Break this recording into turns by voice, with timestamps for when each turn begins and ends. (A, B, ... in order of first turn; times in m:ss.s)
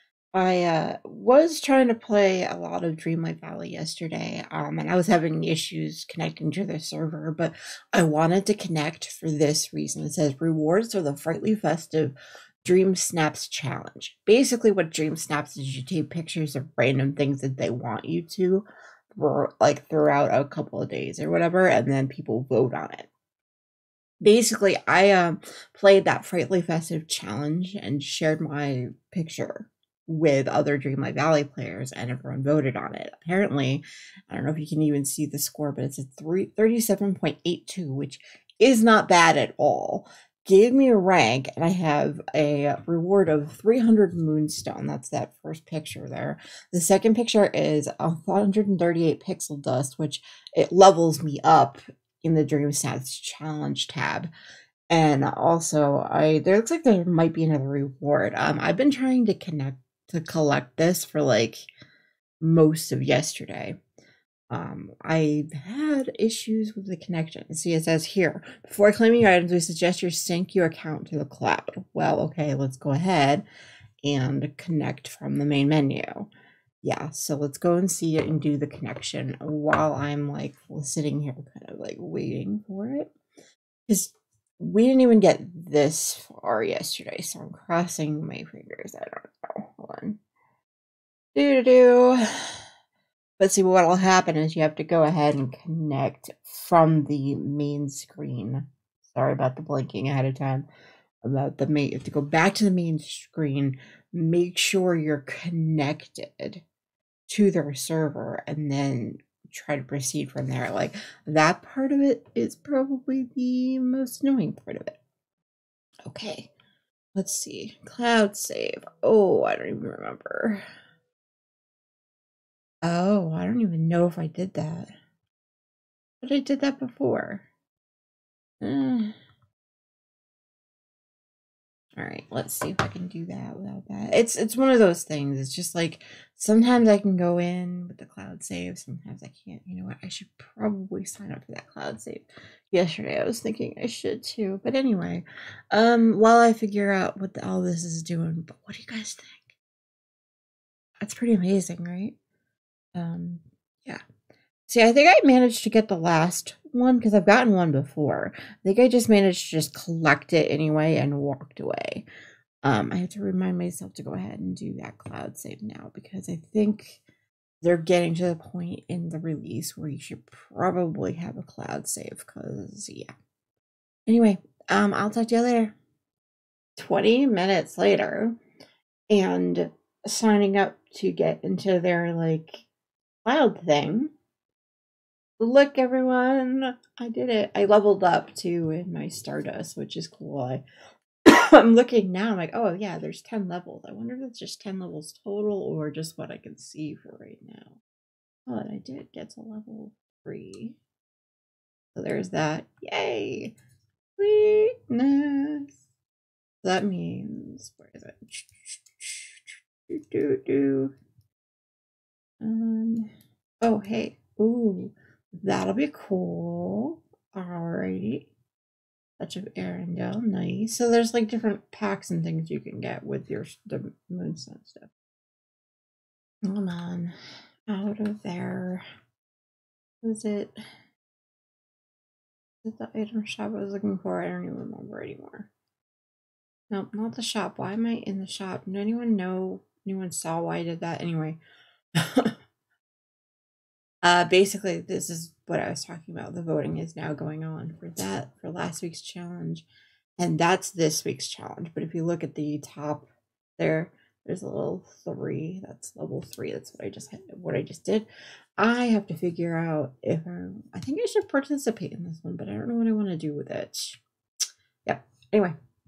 0:00.3-0:23.1 A
0:24.2-0:54.3 A
0:54.9-1:01.7 A
1:02.4-1:03.8 A
1:04.5-1:13.4 A
1:14.0-1:16.3 A
1:16.8-1:23.1 A
1:23.9-1:30.2 A
1:31.3-1:32.2 A
1:33.4-1:40.6 A
1:41.2-1:46.6 A
1:47.3-1:55.0 A
1:56.0-1:56.5 A
1:57.1-2:00.6 A
2:02.8-2:04.9 A
2:06.2-2:07.4 A
2:08.6-2:09.1 A
2:12.0-2:29.5 A
2:31.0-2:32.1 A
2:32.9-2:34.0 A
2:34.7-2:42.0 A
2:42.6-2:47.0 A
2:47.6-2:53.1 A
2:54.1-2:55.7 A
2:56.8-2:58.4 A
2:59.1-3:02.6 A
3:03.2-3:04.1 A
3:05.4-3:10.6 A
3:11.2-3:17.8 A
3:18.5-3:20.8 A
3:21.9-3:23.5 A
3:24.2-3:25.8 A
3:26.6-3:30.9 A
3:32.4-3:33.1 A
3:33.6-3:38.3 A
3:39.2-3:44.9 A
3:46.4-3:47.1 A
3:47.7-3:48.8 A
3:50.0-3:50.5 A
3:52.6-3:55.5 A
3:56.7-4:01.4 A
4:02.0-4:02.3 A
4:04.0-4:09.6 A
4:10.2-4:13.1 A
4:13.6-4:24.0 A
4:24.8-4:25.5 A